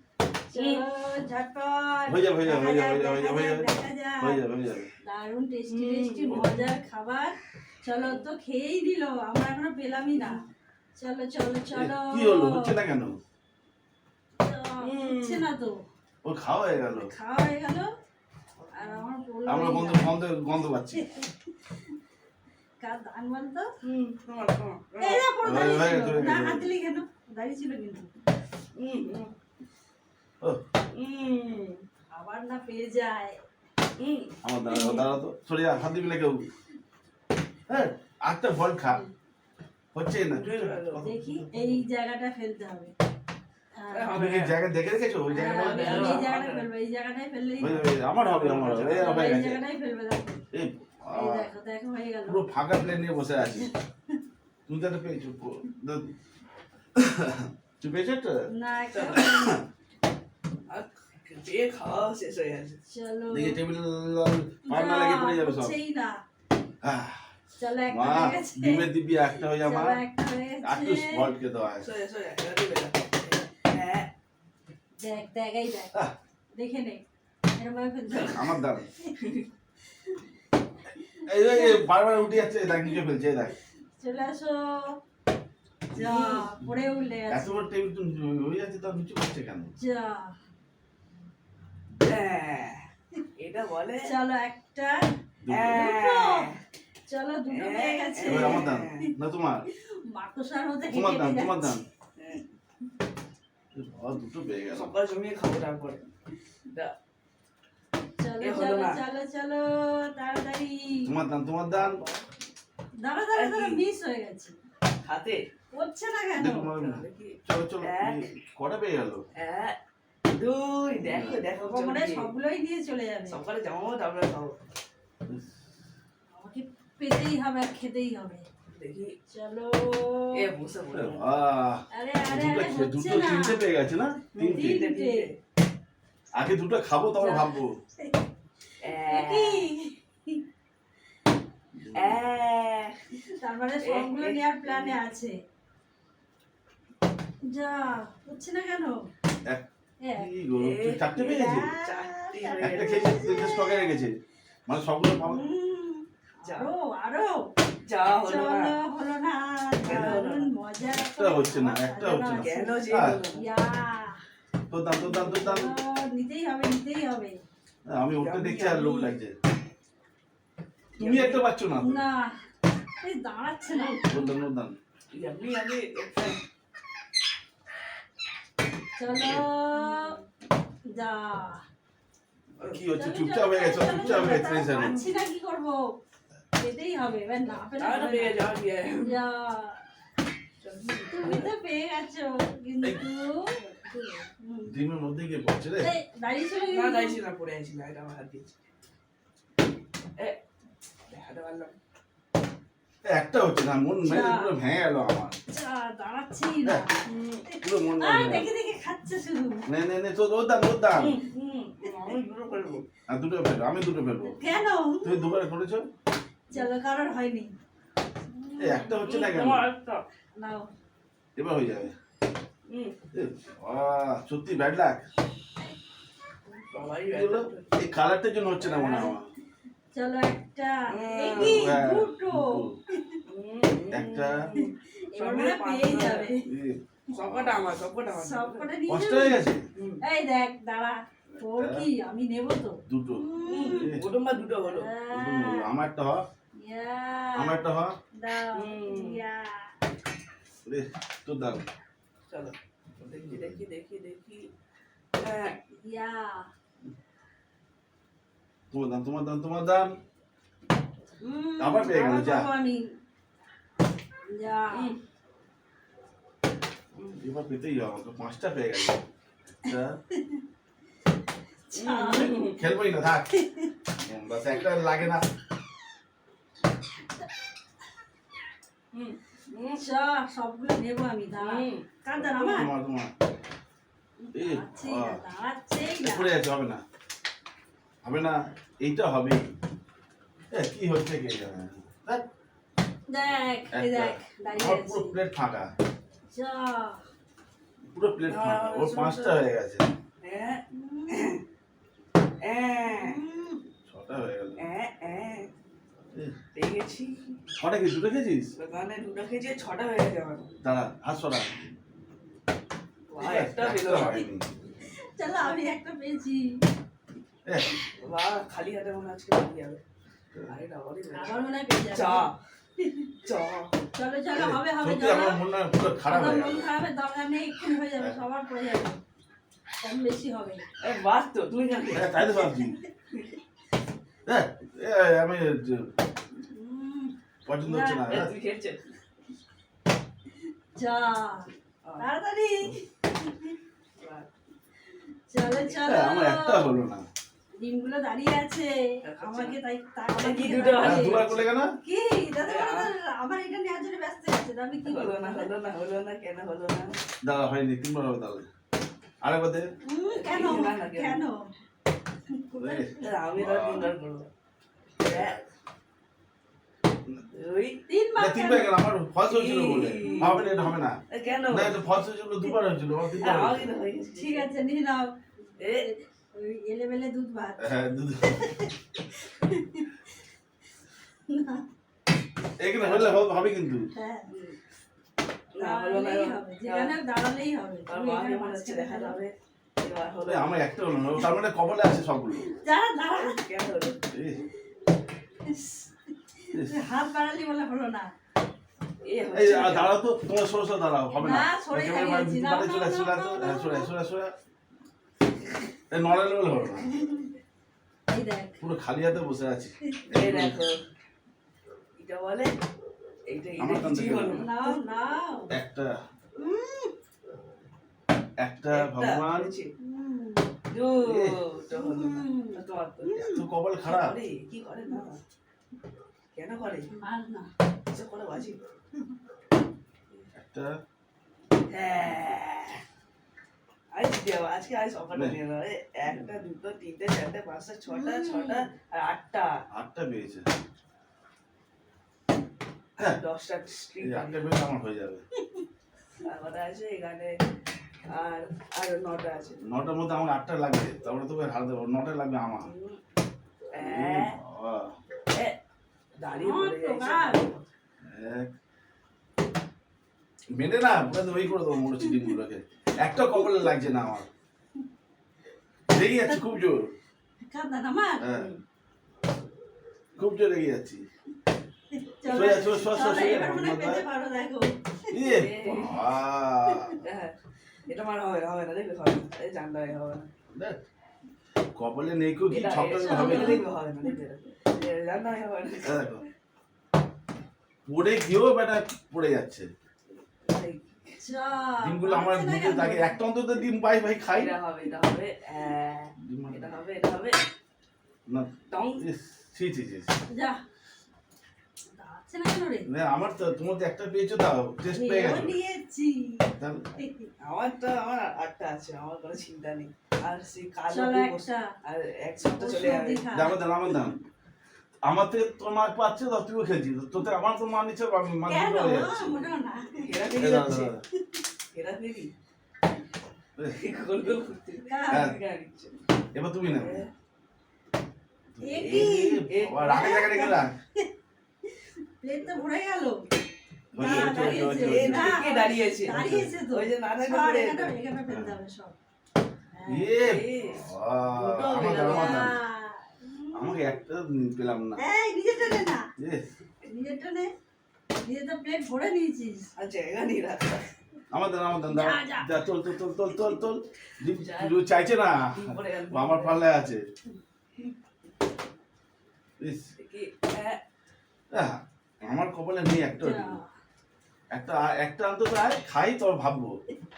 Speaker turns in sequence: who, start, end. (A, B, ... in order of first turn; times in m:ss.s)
0:00.5-0:04.4 A
0:00.5-0:00.8 B
0:02.1-0:03.7 C
0:04.2-0:04.9 C
0:05.0-0:10.4 A
0:05.7-0:06.7 B
0:10.1-0:10.4 B
0:11.0-0:12.7 A
0:11.7-0:13.2 C
0:14.4-0:15.8 A
0:14.8-0:15.5 B
0:16.2-0:17.1 C
0:16.8-0:17.9 A
0:18.6-0:19.0 B
0:18.7-0:20.1 A
0:19.4-0:21.0 C
0:20.9-0:21.8 A
0:22.8-0:23.6 A
0:23.8-0:25.3 B
0:25.0-0:28.1 A
0:25.4-0:26.7 C
0:28.8-0:29.3 B
0:30.9-0:31.8 B
0:32.1-0:33.4 A
0:34.0-0:35.1 B
0:34.4-0:36.5 C
0:37.7-0:39.0 C
0:39.9-0:41.8 C
0:40.3-0:41.0 B
0:41.0-0:42.9 A
0:43.8-0:44.1 A
0:43.9-0:44.6 B
0:44.1-0:46.3 C
0:45.3-0:47.9 A
0:45.4-0:46.7 B
0:47.6-0:49.6 C
0:48.2-0:49.1 B
0:48.9-0:50.4 A
0:50.5-0:51.5 C
0:51.1-0:52.4 A
0:52.2-0:53.7 C
0:54.7-0:56.1 C
0:57.0-0:58.4 C
0:58.5-0:59.6 A
0:58.9-0:59.2 B
0:59.1-0:59.6 C
1:00.7-1:02.8 B
1:02.9-1:03.6 A
1:03.3-1:05.8 C
1:04.7-1:06.2 A
1:06.8-1:07.3 C
1:07.6-1:08.9 A
1:07.9-1:10.0 C
1:09.6-1:11.3 A
1:10.6-1:11.9 C
1:11.8-1:14.1 B
1:15.0-1:15.9 A
1:16.5-1:17.0 A
1:17.5-1:19.1 A
1:18.1-1:18.4 B
1:18.3-1:18.9 C
1:19.2-1:19.4 B
1:21.3-1:23.5 C
1:21.4-1:21.8 A
1:22.6-1:23.0 A
1:24.0-1:25.0 A
1:25.9-1:27.7 A
1:26.0-1:26.5 B
1:27.3-1:29.7 C
1:29.8-1:30.3 A
1:32.0-1:32.8 B
1:33.4-1:34.1 B
1:34.0-1:35.0 A
1:35.4-1:35.9 C
1:35.5-1:36.5 B
1:35.7-1:36.4 A
1:37.1-1:39.0 A
1:37.5-1:39.1 B
1:38.2-1:39.7 C
1:40.1-1:41.8 A
1:40.9-1:41.8 C
1:42.2-1:42.4 B
1:43.7-1:44.9 C
1:44.7-1:46.0 B
1:48.2-1:51.1 A
1:48.4-1:49.0 B
1:51.1-1:52.0 C
1:51.7-1:52.2 B
1:53.0-1:54.5 A
1:53.3-1:53.8 B
1:55.0-1:55.4 B
1:55.7-1:56.6 A
1:56.4-1:59.2 C
1:56.4-1:58.2 B
1:59.4-1:59.8 B
2:00.3-2:02.3 B
2:01.0-2:01.4 C
2:01.6-2:03.4 A
2:03.3-2:04.5 B
2:05.2-2:05.6 C
2:06.3-2:08.4 A
2:08.7-2:09.1 B
2:09.3-2:10.5 A
2:10.3-2:11.3 B
2:10.9-2:14.8 C
2:11.9-2:13.6 A
2:14.3-2:15.3 B
2:14.5-2:15.3 A
2:16.3-2:17.7 C
2:17.2-2:18.2 A
2:18.8-2:19.7 B
2:18.9-2:20.4 A
2:21.7-2:22.2 C
2:21.9-2:23.2 B
2:23.4-2:25.4 A
2:23.8-2:25.0 B
2:27.4-2:29.0 A
2:30.0-2:30.3 A
2:30.2-2:31.7 C
2:30.6-2:33.3 B
2:31.2-2:33.9 A
2:32.6-2:35.5 C
2:35.2-2:37.4 A
2:36.4-2:36.7 B
2:37.9-2:38.8 B
2:38.2-2:44.2 A
2:39.8-2:40.5 B
2:39.9-2:40.2 C
2:40.9-2:43.2 C
2:42.4-2:43.5 B
2:44.7-2:45.7 C
2:45.0-2:47.4 A
2:47.8-2:49.3 C
2:48.2-2:49.1 B
2:51.0-2:52.0 C
2:51.0-2:51.4 B
2:51.8-2:52.3 A
2:53.0-2:54.3 A
2:54.0-2:54.8 C
2:55.1-2:56.4 B
2:59.0-3:00.1 A
2:59.1-2:59.4 C
2:59.7-3:00.2 B
3:00.9-3:01.6 A
3:02.6-3:05.0 C
3:02.9-3:05.8 A
3:03.8-3:05.1 B
3:06.6-3:08.4 A
3:07.8-3:09.1 B
3:09.0-3:09.8 A
3:10.6-3:11.5 B
3:11.1-3:14.7 A
3:14.7-3:15.9 C
3:15.8-3:17.2 A
3:16.7-3:18.6 B
3:21.1-3:21.7 B
3:23.0-3:25.4 C
3:24.0-3:24.5 A
3:25.5-3:29.6 A
3:27.0-3:27.4 B
3:27.6-3:28.5 C
3:29.7-3:31.2 C
3:30.9-3:32.8 B
3:33.1-3:34.4 C
3:34.2-3:35.3 A
3:35.0-3:35.9 C
3:36.5-3:37.5 A
3:38.3-3:40.0 B
3:38.6-3:39.7 C
3:40.3-3:40.7 A
3:41.4-3:41.9 C
3:42.7-3:43.0 B
3:43.1-3:45.0 C
3:46.7-3:47.7 B
3:47.0-3:49.3 C
3:48.7-3:49.2 B
3:49.9-3:53.2 A
3:50.9-3:51.7 B
3:51.3-3:52.8 C
3:53.3-3:56.3 B
3:53.9-3:54.4 C
3:54.6-3:56.5 A
3:56.4-3:57.8 C
3:57.1-3:58.7 B
3:58.1-3:59.4 A
3:58.9-3:59.6 C
3:59.8-4:00.0 B
4:00.0-4:04.0 A
4:01.3-4:01.8 C
4:02.9-4:04.0 C
4:03.4-4:04.9 B
4:04.6-4:05.7 A
4:05.1-4:06.2 C
4:06.6-4:07.6 A
4:07.4-4:08.0 C
4:08.2-4:09.7 A
4:08.5-4:09.2 B
4:10.6-4:11.6 C
4:12.3-4:14.5 B
4:13.2-4:13.6 C
4:15.2-4:15.6 B
4:15.8-4:16.4 A
4:18.7-4:19.9 C
4:21.2-4:22.9 A
4:21.6-4:22.5 C
4:24.3-4:24.9 A
4:24.7-4:25.0 B
4:27.2-4:29.0 C
4:29.6-4:30.0 C
4:31.7-4:32.4 A
4:31.7-4:32.7 B
4:32.4-4:33.3 C
4:33.3-4:33.7 A
4:34.0-4:35.2 C
4:38.9-4:39.8 B
4:39.8-4:42.7 A
4:41.4-4:41.8 B
4:42.2-4:43.1 C
4:44.3-4:46.3 A
4:44.3-4:45.2 C
4:46.0-4:46.8 C
4:48.0-4:49.5 C
4:50.5-4:52.2 C
4:53.1-4:55.1 A
4:53.7-4:55.7 C
4:56.3-4:57.0 A
4:57.8-4:59.9 C
4:58.2-4:59.5 B
5:00.2-5:01.4 B
5:00.7-5:01.3 A
5:02.4-5:03.2 B
5:02.8-5:03.6 A
5:03.9-5:04.6 C
5:04.6-5:05.5 B
5:06.5-5:07.3 B
5:07.6-5:08.5 C
5:08.6-5:10.5 B
5:10.6-5:11.5 C
5:13.1-5:14.2 B
5:13.2-5:14.5 C
5:15.1-5:16.5 A
5:17.4-5:17.8 C
5:18.0-5:19.8 B
5:20.5-5:22.4 B
5:21.1-5:23.1 A
5:23.2-5:23.7 B
5:23.9-5:25.4 A
5:24.3-5:26.7 C
5:26.0-5:29.0 A
5:29.8-5:30.6 A
5:30.8-5:32.5 B
5:31.9-5:32.8 C
5:34.2-5:35.9 C
5:36.5-5:38.2 A
5:37.4-5:38.3 C
5:38.0-5:39.0 B
5:40.7-5:43.5 A
5:41.8-5:42.1 B
5:44.0-5:44.3 B
5:45.3-5:46.7 A
5:45.4-5:45.8 B
5:45.8-5:47.0 C
5:47.6-5:55.5 A
5:49.1-5:49.6 B
5:50.1-5:51.4 B
5:50.8-5:51.7 C
5:52.4-5:52.9 B
5:54.8-5:57.0 B
5:57.2-5:58.4 C
5:59.2-5:59.7 C
5:59.8-6:01.4 A
6:00.1-6:01.2 B
6:02.3-6:03.0 A
6:02.5-6:03.9 C
6:03.0-6:04.3 B
6:05.0-6:05.4 B
6:05.0-6:05.3 C
6:07.3-6:07.8 B
6:07.9-6:08.8 A
6:08.2-6:11.0 C
6:09.3-6:11.8 B
6:10.0-6:10.5 A
6:11.5-6:13.7 C
6:13.2-6:14.5 B
6:14.1-6:19.9 A
6:15.6-6:15.9 B
6:17.6-6:18.5 C
6:21.3-6:21.6 A
6:22.6-6:23.9 C
6:22.8-6:23.3 B
6:23.9-6:24.3 A
6:24.3-6:24.6 B
6:25.6-6:27.0 B
6:25.6-6:29.2 A
6:27.9-6:31.2 B
6:30.2-6:32.5 C
6:32.3-6:33.4 A
6:33.1-6:34.0 B
6:34.1-6:34.4 C
6:35.4-6:38.1 A
6:36.5-6:36.8 C
6:39.0-6:40.0 B
6:39.3-6:44.3 C
6:41.2-6:43.9 A
6:45.9-6:46.9 C
6:46.6-6:47.3 A
6:48.1-6:48.6 A
6:48.6-6:50.6 C
6:50.1-6:50.8 B
6:52.0-6:52.5 B
6:53.3-6:54.8 B
6:53.6-6:54.5 C
6:54.3-6:55.5 A
6:55.5-6:55.9 C
6:56.4-6:56.9 A
6:58.4-6:59.5 C
6:58.7-6:59.7 B
6:59.8-7:00.5 A
7:00.7-7:03.1 B
7:01.0-7:01.4 C
7:01.7-7:03.4 A
7:03.1-7:04.2 C
7:03.8-7:05.2 B
7:06.3-7:06.9 B
7:06.9-7:07.5 A
7:07.9-7:08.6 B
7:10.3-7:10.8 C
7:11.7-7:12.8 B
7:13.9-7:19.5 B
7:17.9-7:18.7 A
7:19.7-7:20.5 C
7:23.0-7:24.5 B
7:24.0-7:25.2 C
7:26.2-7:27.4 B
7:28.1-7:29.6 B
7:29.6-7:32.7 C
7:32.6-7:33.0 B
7:33.7-7:34.4 B
7:33.8-7:34.9 C
7:36.2-7:37.7 B
7:36.4-7:37.4 A
7:38.0-7:38.5 C
7:40.5-7:44.3 C
7:42.0-7:42.4 A
7:45.9-7:46.9 C
7:47.4-7:48.2 A
7:48.2-7:48.5 C
7:48.3-7:48.6 B
7:50.2-7:51.0 C
7:52.1-7:55.3 A
7:52.3-7:54.0 C
7:52.3-7:53.5 B
7:55.1-7:57.0 C
7:55.3-7:56.0 B
7:56.6-7:56.9 A
7:57.0-7:57.3 B
7:57.9-8:00.3 B
8:01.7-8:03.6 C
8:02.5-8:06.1 B
8:02.9-8:03.6 A
8:05.8-8:06.2 C
8:07.9-8:09.7 C
8:10.5-8:11.2 B
8:11.2-8:13.2 A
8:11.8-8:14.5 C
8:14.3-8:17.4 B
8:16.2-8:16.8 C
8:18.3-8:20.1 C
8:18.7-8:19.0 B
8:20.3-8:20.6 A
8:21.9-8:22.9 A
8:22.9-8:25.6 C
8:24.9-8:27.3 A
8:26.5-8:26.9 C
8:27.4-8:33.3 B
8:30.9-8:31.6 A
8:32.5-8:33.6 A
8:33.3-8:34.2 C
8:35.0-8:39.4 C
8:38.4-8:40.3 A
8:39.9-8:40.9 B
8:40.4-8:41.0 C
8:41.7-8:42.3 B
8:43.7-8:46.0 B
8:44.8-8:45.3 A
8:45.1-8:45.3 C
8:46.3-8:47.0 C
8:46.6-8:47.1 B
8:48.6-8:50.7 C
8:48.6-8:50.6 A
8:48.8-8:50.6 B
8:52.2-8:53.2 A
8:53.9-8:55.4 C
8:54.0-8:57.9 B
8:54.0-8:58.9 A
8:56.0-8:56.5 C
8:58.3-8:58.6 C
8:59.7-9:00.2 A
8:59.9-9:02.6 C
9:00.2-9:02.5 B
9:01.9-9:03.7 A
9:03.5-9:05.0 C
9:05.0-9:06.1 A
9:06.2-9:06.4 C
9:06.8-9:07.5 A
9:08.2-9:09.7 A
9:09.8-9:10.9 B
9:11.3-9:17.0 C
9:11.9-9:12.5 A
9:14.2-9:14.8 B
9:15.5-9:16.6 B
9:20.0-9:20.8 B
9:21.5-9:23.6 C
9:23.2-9:23.7 A
9:24.5-9:26.7 C